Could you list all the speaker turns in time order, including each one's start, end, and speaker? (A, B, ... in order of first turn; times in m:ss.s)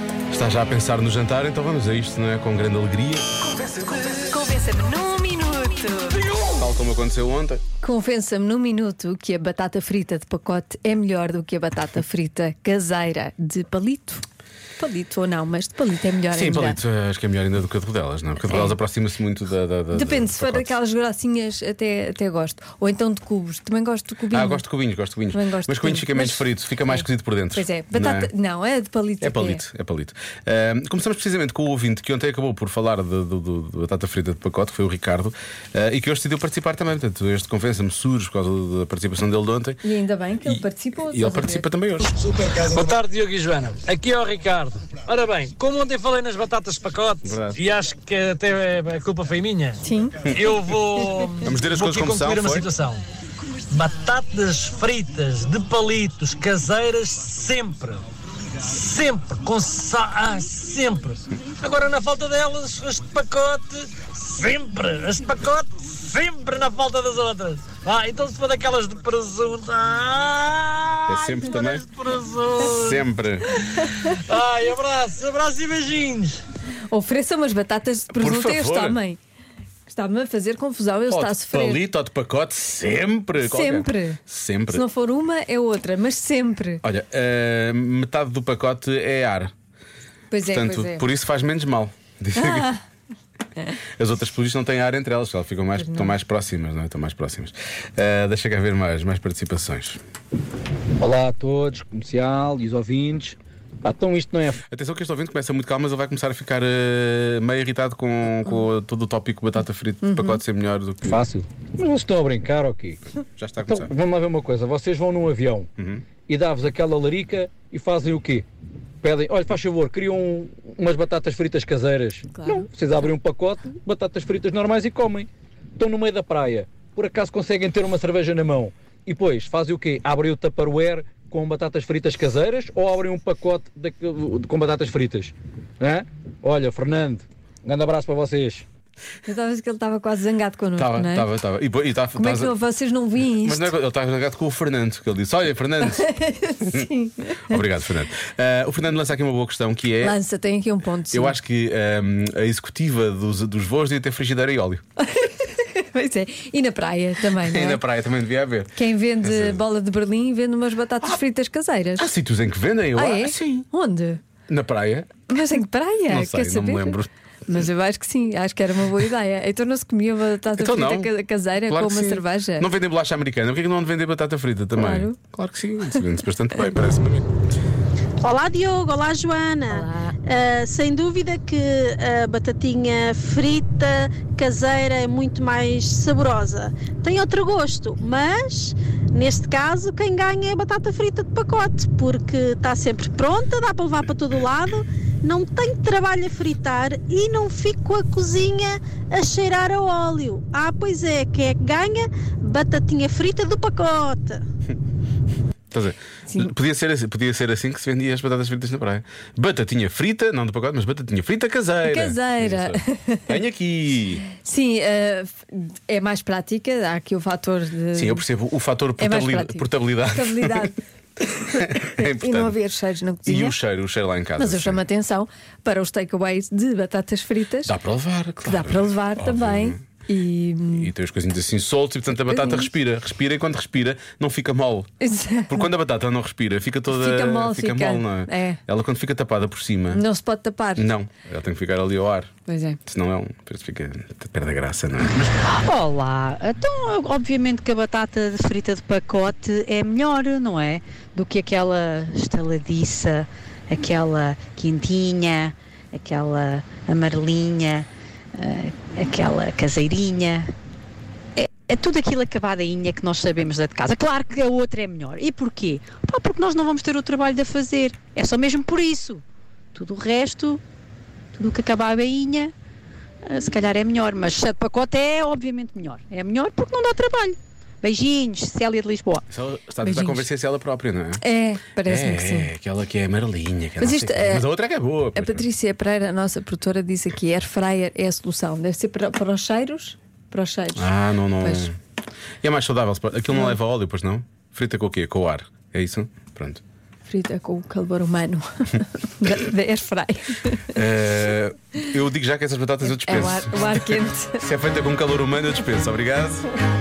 0:00.3-0:03.4 A
0:03.9-0:06.4 B
0:06.5-0:07.6 A
0:07.8-0:14.3 B
0:14.8-0:16.8 B
0:16.3-0:20.7 A
0:18.4-0:18.8 B
0:19.9-0:24.6 B
0:24.3-0:28.3 A
0:25.3-0:29.6 B
0:29.2-0:39.8 A
0:39.8-0:41.7 B
0:40.5-0:42.4 A
0:42.2-0:53.0 C
0:47.2-0:47.6 A
0:49.8-0:50.3 B
0:51.0-0:51.3 B
0:51.4-0:52.7 A
0:53.7-0:58.0 C
0:58.6-1:16.4 C
1:11.1-1:11.9 A
1:12.7-1:13.5 A
1:13.5-1:14.1 B
1:16.9-1:19.2 B
1:18.1-1:19.0 A
1:19.9-1:21.8 B
1:21.1-1:24.8 A
1:23.4-1:26.8 B
1:26.8-1:29.5 A
1:30.3-1:31.1 B
1:30.5-1:32.8 A
1:32.4-1:32.8 B
1:34.0-1:40.0 A
1:35.8-1:36.2 B
1:41.0-1:44.6 D
1:44.7-1:51.2 A
1:50.1-1:50.4 B
1:51.0-1:53.0 D
1:53.4-1:53.9 A
1:53.7-1:55.7 D
1:55.8-1:56.1 A
1:56.3-1:58.5 D
1:59.0-2:18.6 D
2:19.3-2:21.3 B
2:20.8-2:22.6 A
2:22.1-2:23.8 B
2:23.4-2:26.9 A
2:25.8-2:27.6 B
2:27.5-2:30.2 A
2:30.0-2:31.4 B
2:31.1-2:34.8 A
2:35.0-2:37.8 B
2:37.4-2:39.6 A
2:38.8-2:42.1 B
2:42.0-2:43.7 A
2:42.9-2:44.2 B
2:44.5-2:45.3 A
2:45.3-2:52.7 B
2:46.1-2:47.1 A
2:50.6-2:51.1 A
2:51.7-2:57.3 A
2:54.8-2:55.2 B
2:58.2-3:24.4 E
2:59.7-3:00.2 B
3:25.7-3:34.2 A
3:31.9-3:33.4 B
3:34.3-3:38.3 B
3:38.0-3:40.8 A
3:39.0-3:43.6 B
3:41.5-3:42.6 A
3:43.3-3:44.8 A
3:44.4-3:47.8 B
3:47.6-3:49.8 A
3:48.4-3:50.9 B
3:50.7-3:54.9 A
3:52.2-3:52.7 B
3:55.0-3:55.7 B
3:55.5-4:00.0 A
3:56.9-3:58.6 B
3:59.9-4:00.9 B
4:00.8-4:02.3 A
4:02.5-4:02.8 B
4:02.9-4:05.3 A
4:05.4-4:20.5 F
4:21.4-4:29.2 F
4:29.8-4:30.6 F
4:31.4-4:32.5 F
4:33.2-4:39.2 F
4:39.3-4:41.2 A
4:39.8-4:40.3 B
4:41.2-4:42.5 B
4:41.8-4:45.5 A
4:43.8-4:44.5 B
4:45.2-4:51.7 B
4:50.8-4:51.7 A
4:52.4-4:56.6 A
4:57.1-5:00.8 B
5:00.7-5:03.8 A
5:02.8-5:04.5 B
5:04.4-5:06.5 A